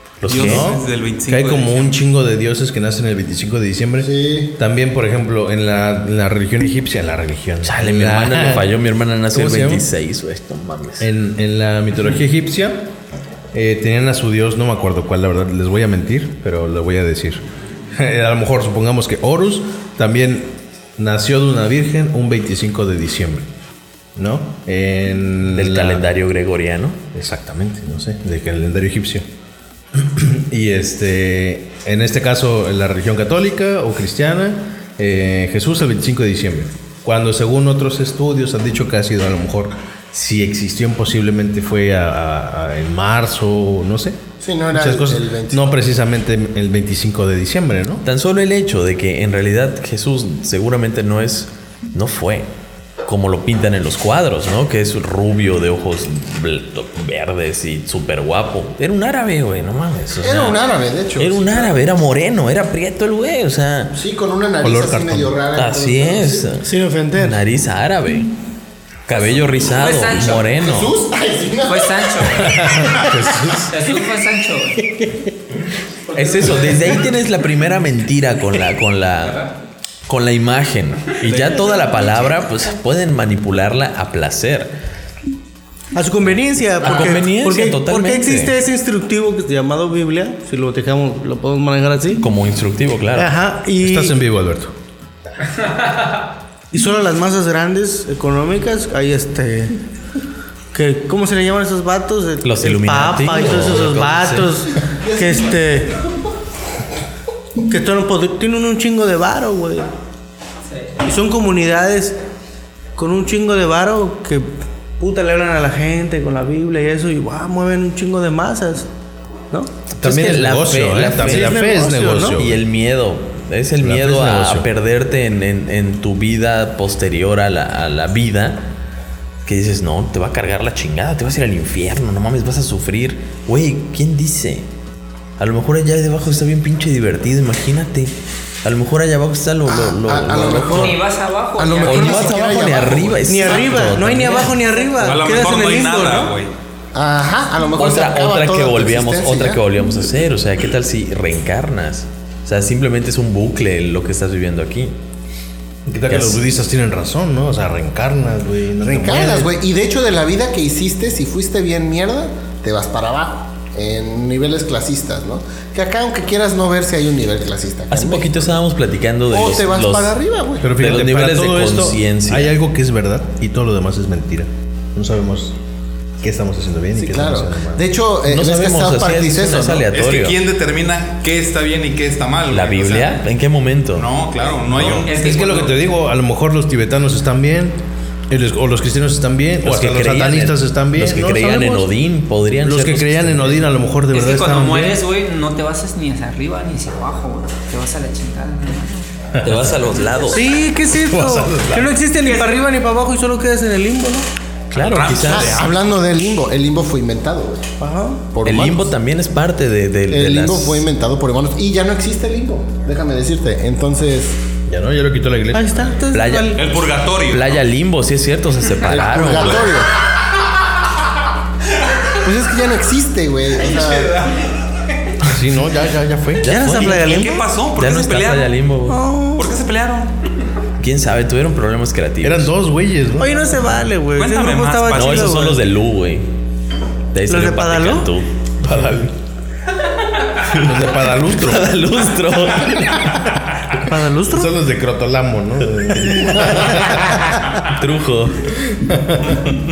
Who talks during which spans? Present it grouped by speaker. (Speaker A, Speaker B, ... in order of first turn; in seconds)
Speaker A: 0.2-0.7, 7.6-11.1, 25.5-27.0, 48.0-52.5, 53.0-60.6, 61.2-63.9, 65.5-68.3, 69.1-70.9, 76.1-79.4, 80.1-84.7, 86.8-88.6, 92.2-93.3, 102.4-104.6, 120.0-121.6, 122.4-128.6, 129.4-134.7, 135.4-138.1, 138.6-140.9, 141.8-144.5, 147.8-154.9, 156.1-156.4, 167.9-170.1, 170.7-172.5, 178.3-180.4, 182.5-184.1, 189.6-193.7, 199.4-200.4, 204.7-205.7, 208.4-210.8, 216.1-216.6, 217.3-219.7, 226.4-229.0, 230.8-232.5, 234.9-236.3, 237.1-239.1, 240.4-243.2, 246.2-248.5
Speaker B: 0.2-8.7, 9.3-9.8, 11.0-12.9, 13.5-23.5, 24.1-26.1, 27.1-29.2, 29.9-44.2, 44.7-48.0, 64.6-65.4, 72.4-73.8, 93.8-94.7, 120.0-122.6, 123.8-124.7, 155.9-159.5, 170.6-175.5, 176.2-177.8, 184.7-187.8, 188.3-191.9, 192.6-195.0, 199.3-199.8, 201.0-202.0, 214.7-215.9, 225.2-226.5, 232.2-233.9, 240.5-241.8, 244.3-247.3, 248.7-249.4
Speaker C: 0.3-2.0, 145.0-146.5, 179.9-183.2, 183.9-185.1, 204.7-205.7, 216.5-217.6, 223.6-224.5, 226.8-228.5, 229.3-230.1, 234.2-235.5
Speaker D: 4.0-4.5, 44.4-45.8, 60.2-61.8, 63.9-66.5, 70.5-72.4, 105.0-105.6, 139.7-141.0, 141.6-143.8, 146.9-149.6, 158.8-168.6, 169.3-170.8, 176.9-179.9, 205.3-207.7, 208.3-208.9, 210.1-214.4, 218.9-219.9, 222.2-224.2
Speaker E: 66.6-67.4, 85.9-92.3, 93.1-94.2, 96.7-99.8, 100.7-106.0, 107.6-109.9, 111.0-112.2, 113.0-118.9, 119.5-119.8, 121.1-122.4, 143.2-146.3, 200.2-204.3, 207.8-208.2, 215.5-216.7, 226.4-227.5, 228.9-229.6, 233.2-235.6, 237.3-238.1, 243.8-244.6
Speaker F: 69.7-70.5, 71.7-72.6, 73.7-74.8, 76.1-77.1, 79.2-79.5, 81.1-82.3, 95.6-96.0, 110.7-111.0, 140.6-142.4, 185.0-185.7, 194.1-199.1